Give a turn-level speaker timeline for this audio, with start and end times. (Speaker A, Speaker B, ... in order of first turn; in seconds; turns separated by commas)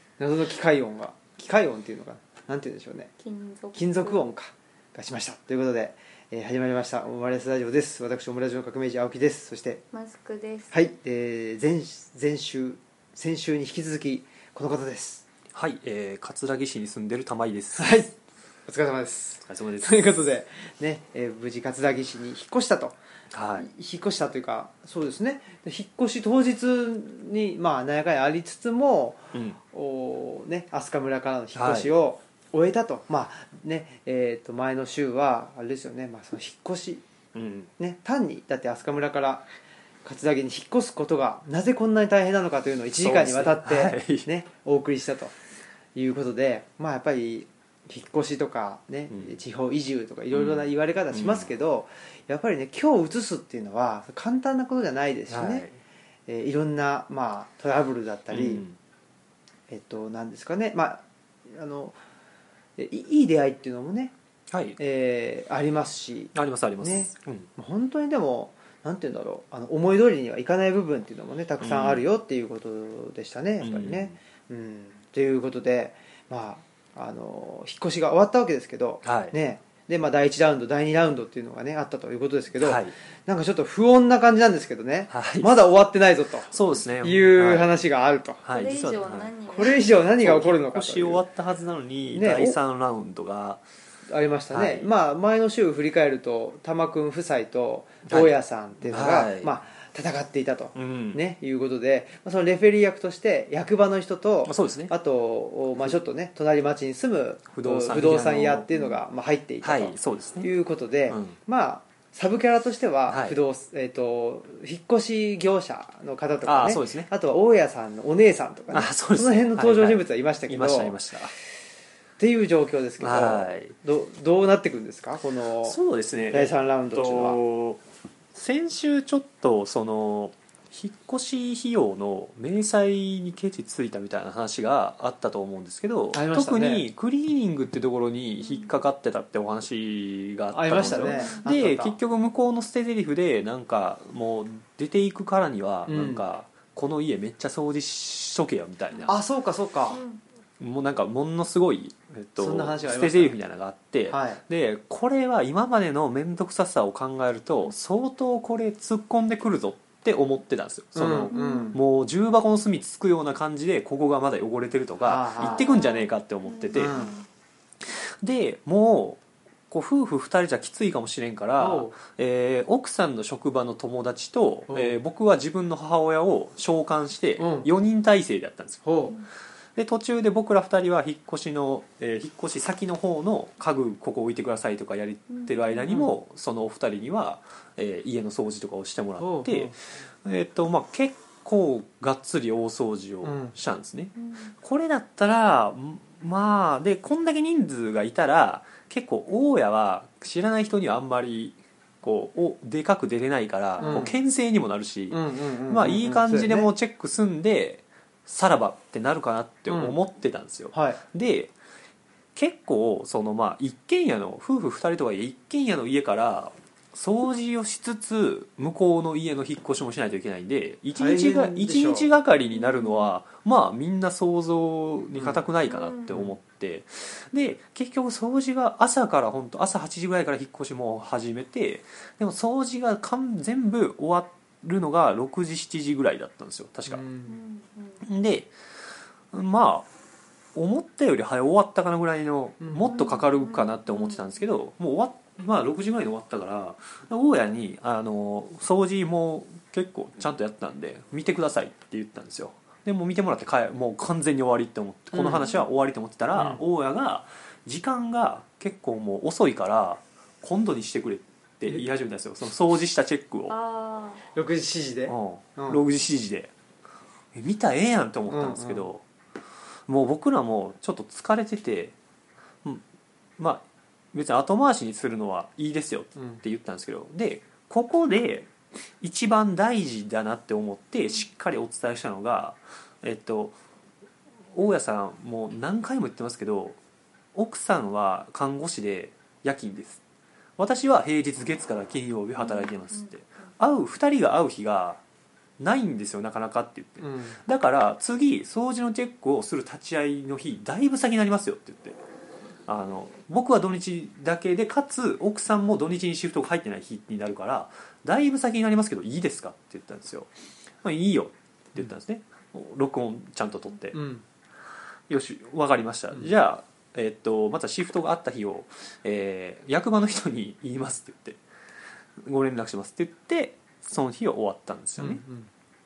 Speaker A: 0.2-3.1, Speaker B: 3.2-4.2, Speaker A: 3.7-9.8, Speaker B: 9.9-10.8, Speaker A: 10.7-15.2, Speaker C: 15.5-17.9, Speaker A: 17.8-18.1, Speaker A: 18.7-22.9, Speaker C: 19.4-20.1, Speaker C: 23.3-23.7, Speaker A: 23.6-37.0, Speaker C: 29.3-29.6, Speaker C: 31.5-31.9, Speaker C: 37.3-37.7, Speaker A: 37.8-39.4, Speaker A: 40.0-45.3, Speaker C: 43.0-44.3, Speaker A: 45.9-55.7, Speaker C: 49.1-49.4, Speaker C: 50.3-51.5, Speaker C: 55.3-55.8, Speaker A: 56.3-58.6, Speaker C: 58.3-58.8, Speaker A: 59.7-62.0, Speaker A: 62.8-64.1, Speaker C: 64.5-64.8, Speaker A: 64.8-88.4, Speaker C: 66.3-67.5, Speaker C: 71.6-72.0, Speaker C: 73.6-74.2, Speaker C: 79.0-79.3, Speaker C: 82.6-82.9, Speaker C: 85.1-85.5, Speaker C: 86.5-87.7, Speaker C: 88.4-89.3, Speaker B: 88.5-90.0, Speaker A: 89.5-91.2, Speaker C: 90.2-93.6, Speaker A: 92.1-92.6, Speaker A: 94.1-121.0, Speaker C: 94.5-94.9, Speaker C: 98.1-99.5, Speaker C: 100.7-101.2, Speaker C: 104.4-104.9, Speaker C: 107.5-108.7, Speaker B: 108.7-109.0, Speaker C: 109.6-110.5, Speaker C: 111.1-111.3, Speaker C: 113.1-113.4, Speaker C: 116.4-117.1, Speaker C: 118.7-121.3, Speaker A: 122.2-125.8, Speaker C: 123.0-123.7, Speaker C: 125.6-127.8, Speaker A: 126.3-127.4, Speaker C: 128.3-149.2, Speaker A: 136.1-136.8, Speaker A: 140.5-141.9, Speaker B: 141.0-141.4, Speaker A: 145.9-146.2, Speaker A: 149.1-150.0, Speaker B: 149.9-150.2, Speaker C: 150.6-167.0, Speaker A: 152.4-153.3, Speaker A: 154.1-154.4, Speaker A: 160.9-161.8, Speaker B: 161.3-161.8, Speaker A: 165.1-165.6, Speaker B: 165.4-167.2, Speaker A: 166.7-167.1, Speaker C: 167.8-178.8, Speaker A: 171.6-172.0, Speaker A: 174.7-175.0, Speaker A: 177.4-177.7, Speaker A: 178.8-179.1, Speaker C: 179.8-211.5, Speaker B: 185.3-185.9, Speaker A: 189.2-189.7, Speaker A: 193.2-193.5, Speaker B: 194.2-194.5, Speaker B: 203.8-204.1, Speaker A: 203.8-204.1, Speaker A: 205.1-206.7, Speaker A: 209.7-209.9, Speaker A: 210.7-211.0, Speaker C: 212.3-237.0, Speaker A: 220.9-222.1, Speaker B: 222.5-223.1, Speaker A: 225.1-225.5, Speaker B: 225.7-226.2, Speaker A: 236.9-237.4, Speaker B: 237.3-238.1, Speaker C: 238.0-238.5, Speaker C: 239.3-239.9, Speaker C: 240.5-263.5, Speaker A: 242.6-242.9, Speaker B: 242.8-244.3, Speaker A: 255.1-255.4, Speaker B: 255.3-255.6, Speaker A: 256.3-256.6, Speaker B: 263.5-264.2, Speaker A: 264.3-265.8, Speaker C: 265.1-266.5, Speaker C: 267.3-269.0, Speaker A: 268.3-268.9, Speaker C: 269.9-271.9, Speaker C: 273.4-283.6, Speaker A: 276.1-276.4, Speaker C: 284.5-286.8, Speaker C: 287.3-290.0, Speaker C: 290.6-295.0, Speaker B: 292.4-293.1, Speaker C: 295.6-302.0, Speaker A: 297.0-297.4, Speaker C: 302.7-310.3, Speaker C: 310.8-314.0, Speaker A: 313.9-314.2, Speaker C: 315.1-321.4, Speaker C: 322.2-325.2, Speaker A: 325.0-325.5